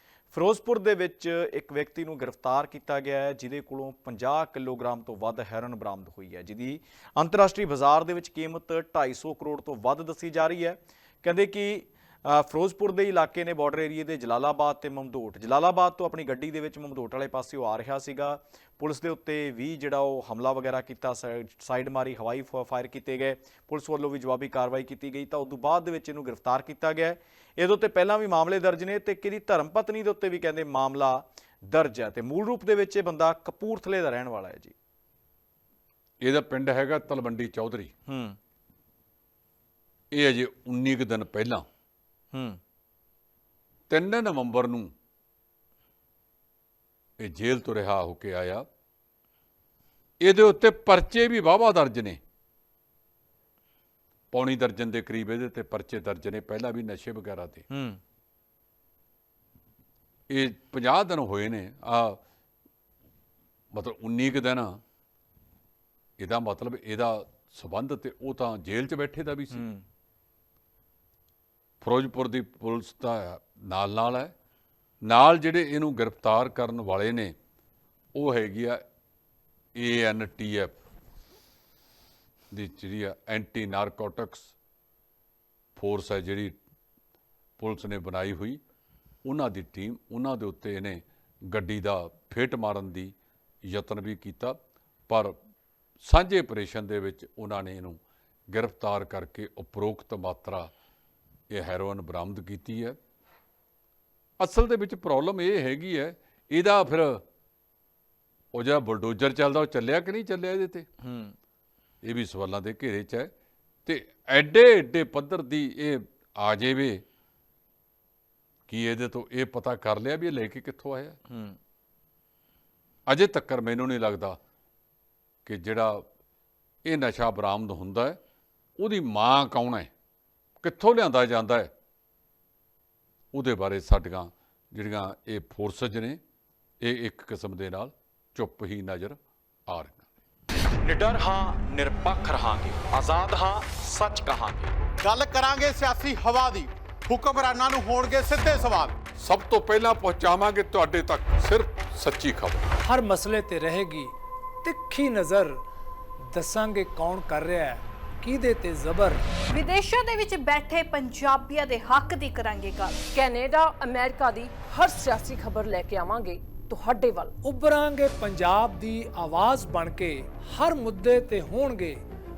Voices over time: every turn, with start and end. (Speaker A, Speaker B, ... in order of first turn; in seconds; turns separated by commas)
Speaker A: 0.3-34.8, Speaker B: 36.2-37.9, Speaker A: 38.1-38.4, Speaker B: 40.1-41.6, Speaker A: 42.3-42.6, Speaker B: 43.9-44.9, Speaker B: 47.2-48.6, Speaker B: 50.2-52.2, Speaker B: 54.3-57.7, Speaker A: 57.7-58.0, Speaker B: 60.3-62.2, Speaker B: 63.7-64.8, Speaker B: 66.2-69.6, Speaker B: 71.8-74.3, Speaker B: 75.1-77.3, Speaker B: 78.2-78.8, Speaker B: 79.8-80.8, Speaker B: 82.5-84.5, Speaker B: 85.8-86.6, Speaker B: 87.6-88.6, Speaker B: 89.2-93.1, Speaker B: 93.7-94.6, Speaker B: 95.1-95.3, Speaker B: 96.0-98.0, Speaker B: 98.5-100.7, Speaker B: 101.5-103.0, Speaker B: 104.4-107.2, Speaker B: 108.5-110.9, Speaker A: 111.0-111.3, Speaker B: 112.0-113.3, Speaker B: 113.9-117.0, Speaker B: 118.7-121.2, Speaker B: 123.1-124.4, Speaker B: 125.5-126.0, Speaker B: 126.8-128.2, Speaker B: 128.8-129.9, Speaker B: 130.6-131.7, Speaker B: 133.3-136.2, Speaker B: 136.8-140.1, Speaker A: 140.8-144.8, Speaker C: 145.0-149.0, Speaker B: 149.2-152.7, Speaker D: 152.8-154.1, Speaker D: 154.6-155.6, Speaker D: 156.3-159.2, Speaker E: 159.5-163.0, Speaker F: 163.1-167.3, Speaker D: 167.4-172.0